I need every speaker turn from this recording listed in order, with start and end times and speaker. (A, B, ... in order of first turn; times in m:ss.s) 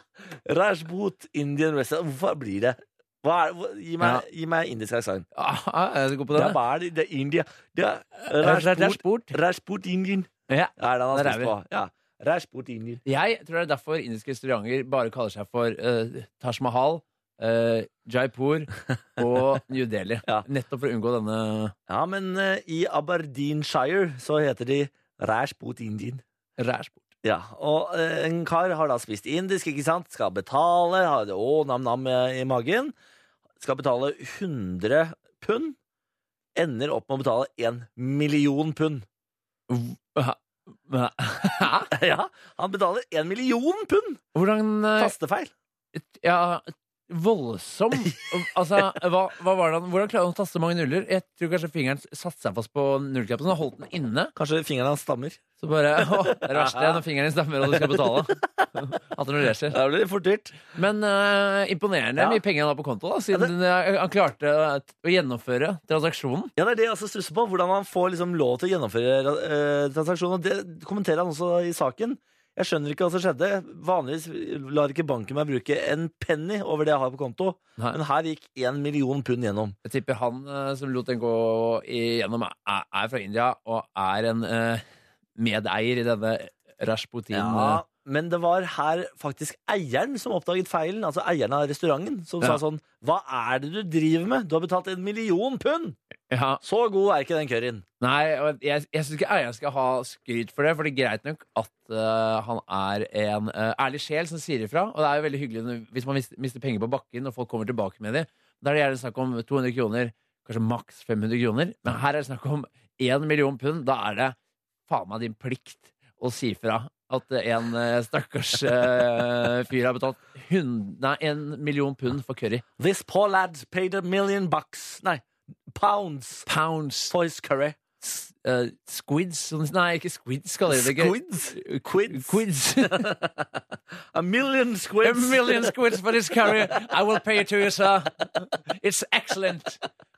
0:00.4-0:05.3 A
0:05.4-0:06.6 B
0:06.3-0:13.0 A
0:08.3-0:09.4 B
0:10.5-0:11.5 B
0:13.1-0:21.8 B
0:21.9-0:26.2 A
0:26.6-0:27.0 B
0:27.2-0:32.9 A
0:33.6-0:35.8 A
0:36.6-0:39.1 A
0:39.7-0:41.9 B
0:41.9-0:44.2 A
0:44.4-0:45.1 B
0:45.0-0:45.5 A
0:45.9-0:54.3 B
0:54.4-0:55.4 A
0:55.6-0:59.8 B
0:56.2-0:57.0 A
0:57.7-0:58.7 A
0:59.7-1:00.6 A
1:00.7-1:06.5 B
1:06.6-1:19.8 A
1:19.8-1:24.8 B
1:25.4-1:27.8 B
1:27.3-1:36.0 A
1:36.3-1:36.6 B
1:36.6-1:37.8 A
1:38.0-1:54.4 B
1:54.9-2:02.6 B
2:02.8-2:06.5 A
2:06.5-2:07.1 B
2:07.1-2:07.8 A
2:08.0-2:13.1 B
2:10.7-2:13.6 A
2:14.1-2:15.8 A
2:15.0-2:19.8 B